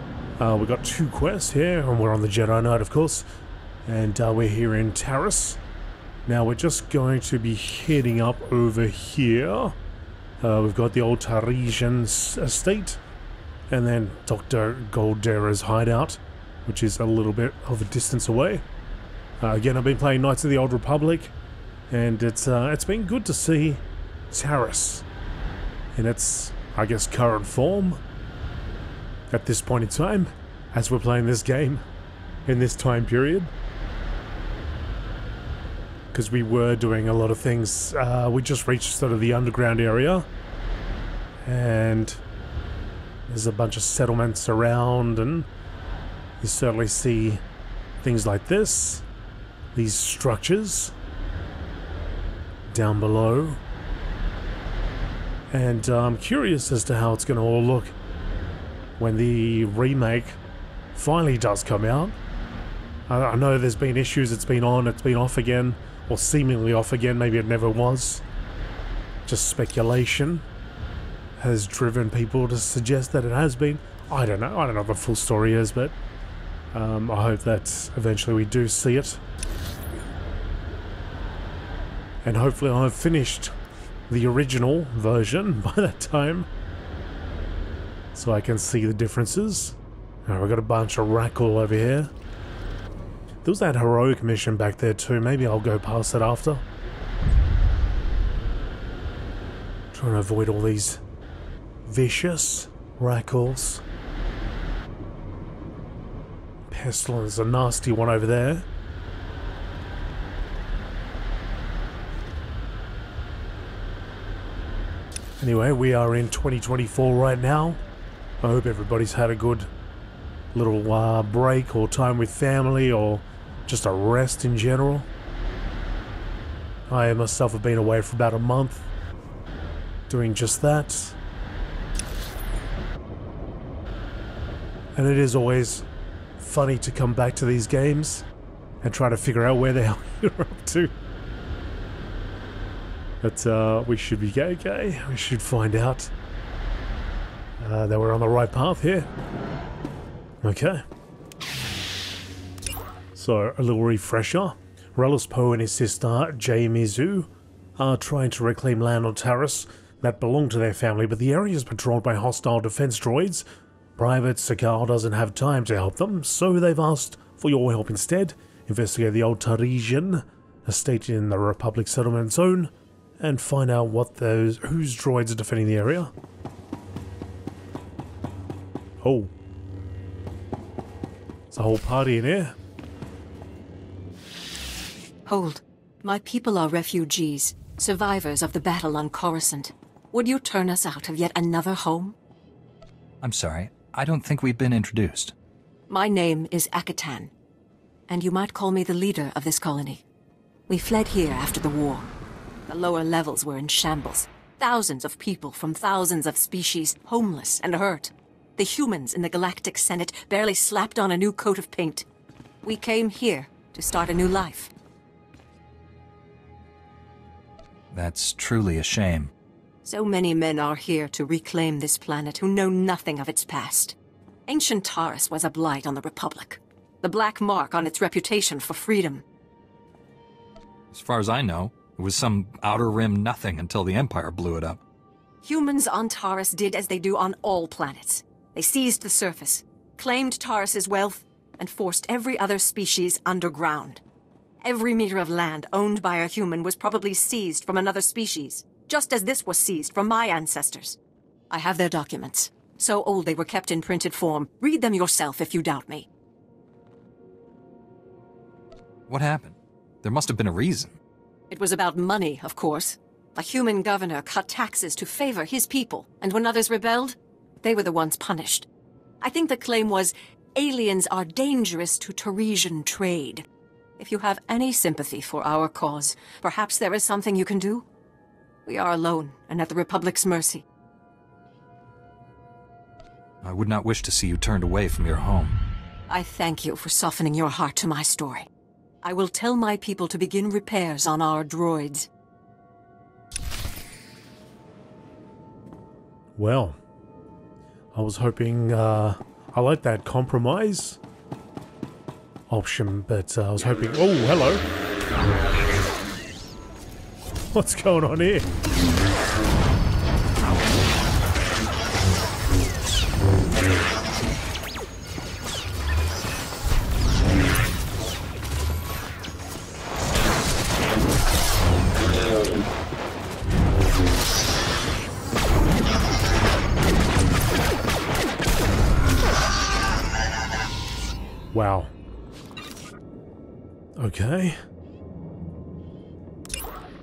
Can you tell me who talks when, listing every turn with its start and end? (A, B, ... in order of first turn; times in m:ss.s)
0:00.4-0:03.2 A
0:03.8-0:05.6 A
0:06.2-0:09.8 A
0:10.4-0:13.0 A
0:13.7-0:18.6 A
0:19.4-0:21.3 A
0:21.9-0:25.0 A
0:25.9-0:28.0 A
0:29.3-0:31.8 A
0:32.4-0:33.5 A
0:36.1-0:40.3 A
0:41.4-0:42.2 A
0:43.3-0:45.5 A
0:46.4-0:47.4 A
0:48.0-0:49.0 A
0:49.7-0:50.9 A
0:52.7-0:53.6 A
0:55.5-0:57.9 A
0:59.0-1:00.4 A
1:00.9-1:02.2 A
1:03.1-1:08.2 A
1:09.2-1:10.4 A
1:11.4-1:15.9 A
1:16.7-1:19.2 A
1:22.2-1:23.5 A
1:24.1-1:26.5 A
1:28.1-1:32.1 A
1:33.4-1:36.6 A
1:39.9-1:41.0 A
1:41.8-1:43.8 A
1:46.7-1:48.6 A
1:55.4-1:57.8 A
1:58.4-1:59.7 A
2:00.5-2:05.1 A
2:06.9-2:08.9 A
2:10.1-2:11.2 A
2:14.9-2:15.8 A
2:16.4-2:18.2 A
2:18.8-2:20.9 A
2:23.2-2:26.1 A
2:27.6-2:29.1 A
2:30.4-2:30.8 A
2:33.1-2:43.4 A
2:44.0-2:56.1 A
2:59.0-2:59.3 A
3:01.5-3:02.5 A
3:05.2-3:12.1 B
3:13.2-3:15.3 C
3:15.9-3:17.3 B
3:18.1-3:20.0 B
3:20.7-3:22.1 B
3:22.7-3:32.0 B
3:32.6-3:34.7 B
3:37.9-3:39.3 C
3:39.8-3:43.9 B
3:44.5-3:49.2 B
3:50.9-3:54.8 C
3:55.4-4:04.0 B
4:04.6-4:11.0 B
4:11.5-4:16.1 B
4:19.1-4:21.0 C
4:21.5-4:28.7 B
4:29.2-4:33.4 B
4:34.0-4:37.8 B
4:38.6-4:40.6 B
4:43.4-4:45.6 C
4:46.1-4:48.5 B
4:49.0-4:52.1 B
4:56.4-4:56.8 A
4:57.9-5:01.0 A
5:02.5-5:04.6 A
5:07.5-5:08.5 A
5:31.5-5:31.9 A
5:34.0-5:34.6 A